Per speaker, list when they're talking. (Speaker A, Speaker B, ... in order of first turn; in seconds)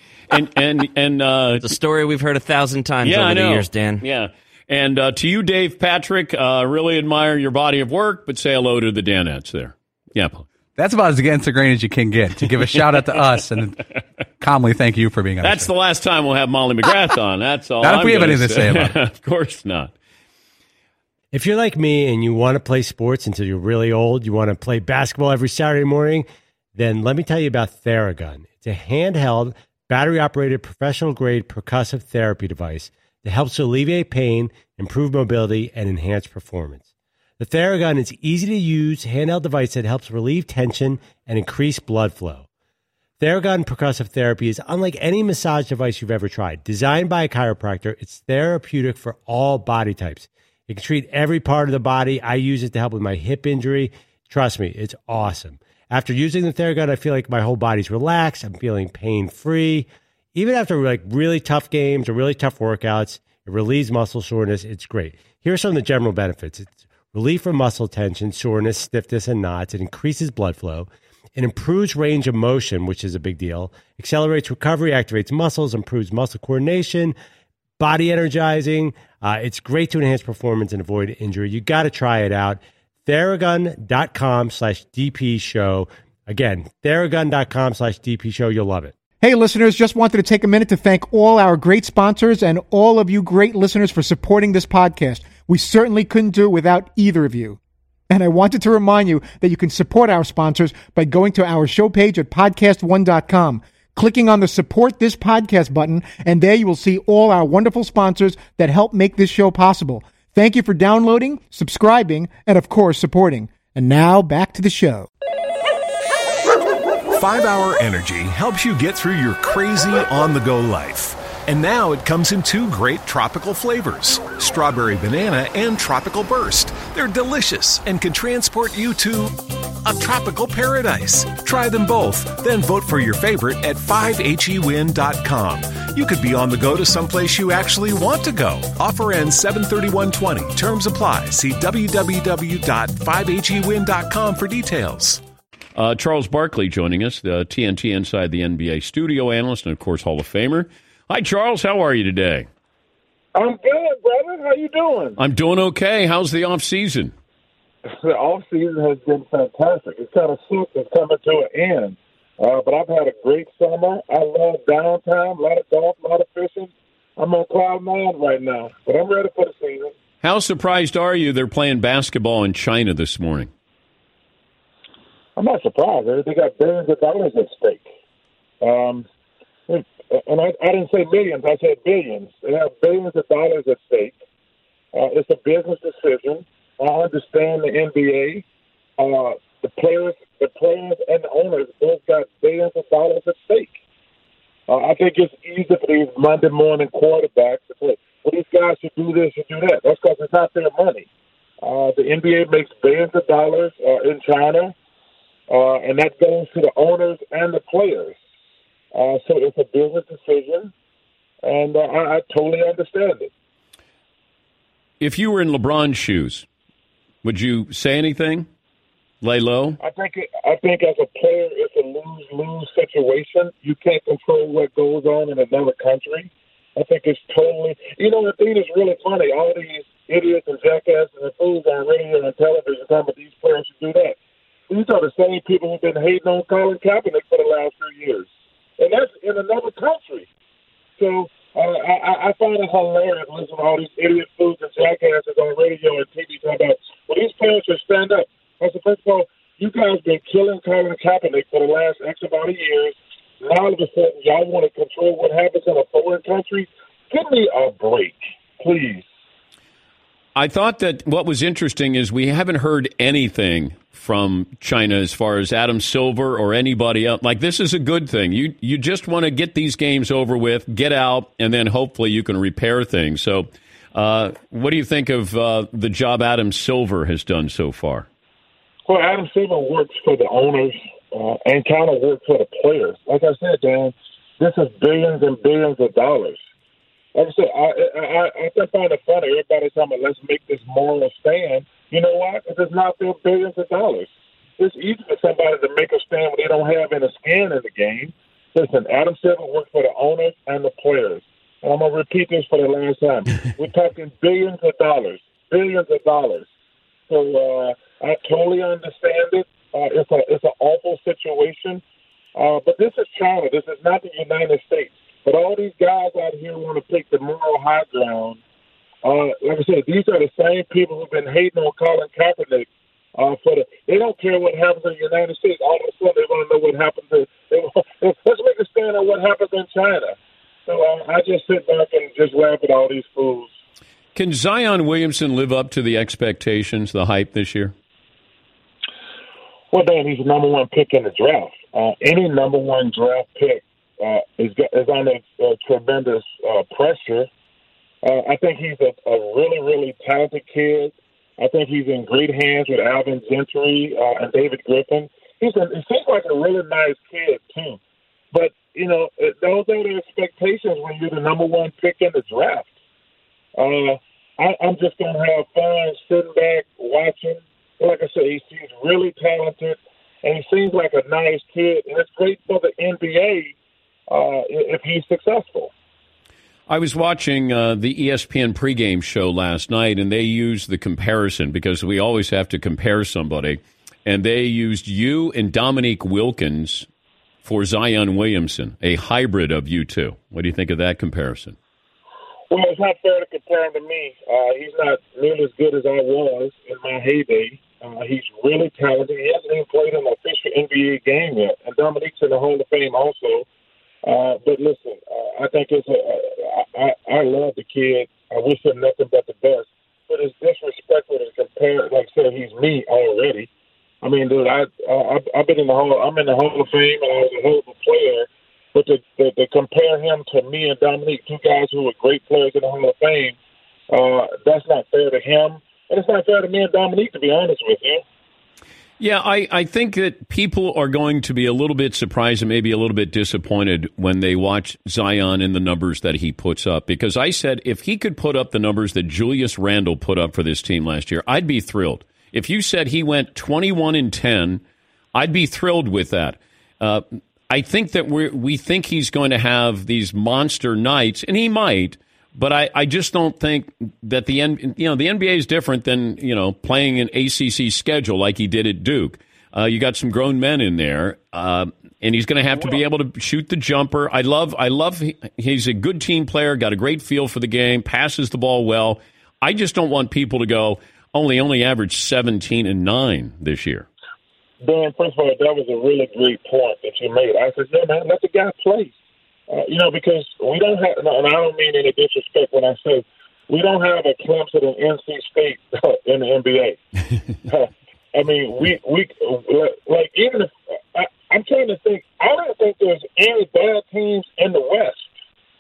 Speaker A: 0.3-1.7, 3.0-10.5, 15.4-19.9, 145.8-152.5, 155.2-157.1, 170.2-173.5, 215.0-216.5, 217.2-218.5, 219.2-219.8, 260.4-278.1, 334.1-337.8, 376.7-386.9, 387.4-391.6, 429.0-444.6, 445.1-473.9
Speaker B: 1.6-4.0
Speaker C: 10.8-15.7, 17.8-19.0
Speaker D: 21.3-36.9, 37.4-42.5, 43.2-77.2, 77.8-89.0
Speaker E: 89.2-97.6, 98.1-115.1
Speaker F: 117.1-145.2
Speaker G: 153.3-155.2, 157.8-169.9, 175.4-177.9, 178.6-179.1, 179.7-184.2, 184.9-188.4, 189.0-193.8, 194.7-201.1, 201.6-204.8, 205.5-208.2, 208.9-210.7, 211.4-213.3, 219.8-234.2, 234.7-238.3, 238.8-240.3, 241.0-259.1, 278.9-286.4, 287.1-306.5, 307.1-311.8, 312.4-318.4, 319.0-333.5, 339.7-347.3, 348.0-357.8, 358.3-362.7, 363.6-373.6, 374.1-375.7, 392.5-403.5, 404.1-413.5, 414.0-423.4, 423.9-428.0, 462.5-462.8, 474.6-478.9, 479.5-486.8, 487.5-495.1